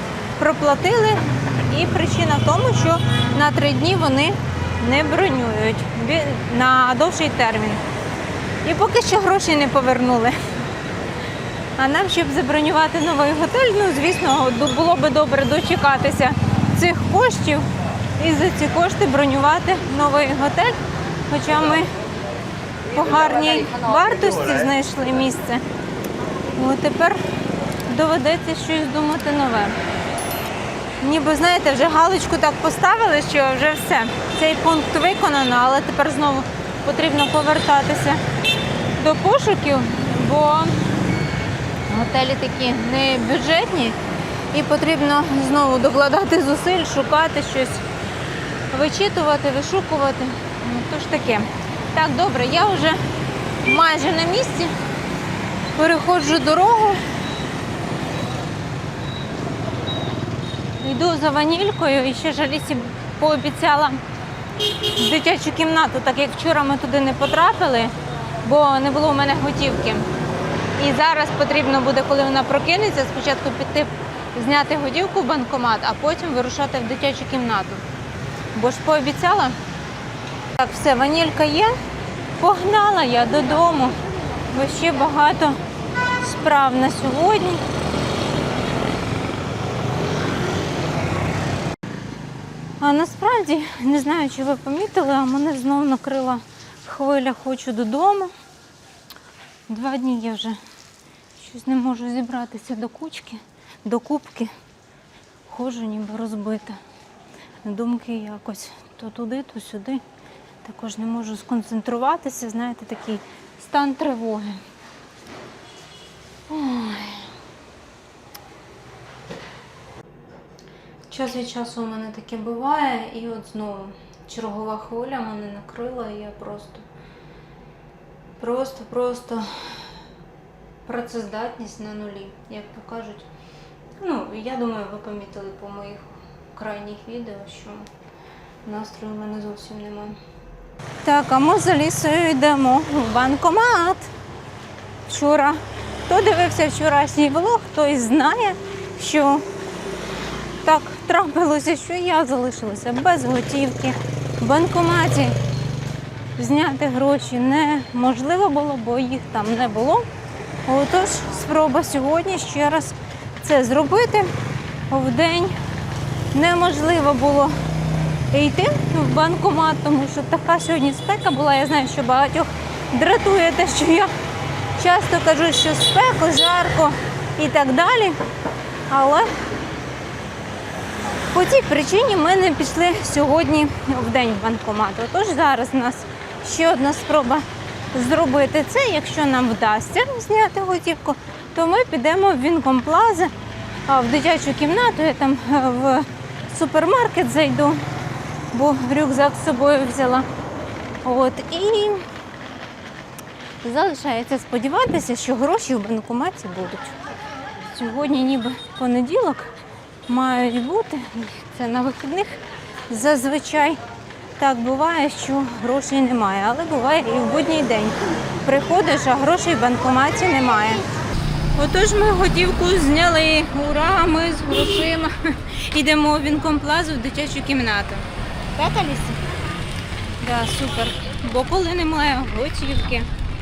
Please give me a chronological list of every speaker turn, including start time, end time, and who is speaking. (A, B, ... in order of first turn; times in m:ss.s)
0:00.4-0:07.8 A
0:08.6-0:10.4 A
0:11.8-0:20.8 A
0:21.3-0:21.9 A
0:22.9-0:25.6 A
0:26.5-0:27.2 A
0:27.9-0:29.8 A
0:31.0-0:38.2 A
0:39.0-0:40.8 A
0:41.9-0:44.0 A
0:44.5-0:47.8 A
0:48.7-0:53.0 A
0:53.6-0:54.7 A
0:55.7-0:57.0 A
1:00.8-1:04.0 A
1:04.8-1:10.1 A
1:10.8-1:17.8 A
1:18.5-1:19.6 A
1:20.6-1:21.7 A
1:22.4-1:24.0 A
1:24.5-1:25.6 A
1:26.2-1:27.6 A
1:32.8-1:38.3 A
1:39.7-1:40.6 A
1:41.4-1:44.5 A
1:45.4-1:46.8 A
1:47.6-1:50.0 A
1:50.6-1:54.6 A
1:56.5-1:57.3 A
2:01.1-2:06.9 A
2:08.4-2:09.9 A
2:10.8-2:13.3 A
2:14.0-2:17.9 A
2:18.6-2:20.2 A
2:21.0-2:24.1 A
2:25.1-2:29.4 A
2:30.6-2:35.4 A
2:36.4-2:40.0 A
2:40.6-2:44.3 A
2:44.9-2:45.6 A
2:46.3-2:47.5 A
2:48.3-2:54.1 A
2:54.8-2:58.2 A
2:58.9-2:59.3 A
3:01.3-3:13.3 A
3:13.9-3:17.8 A
3:18.5-3:20.3 A
3:21.0-3:22.0 A
3:23.6-3:27.0 A
3:27.6-3:29.5 A
3:30.1-3:33.8 A
3:34.4-3:40.8 A
3:41.5-3:49.2 A
3:50.2-3:53.1 A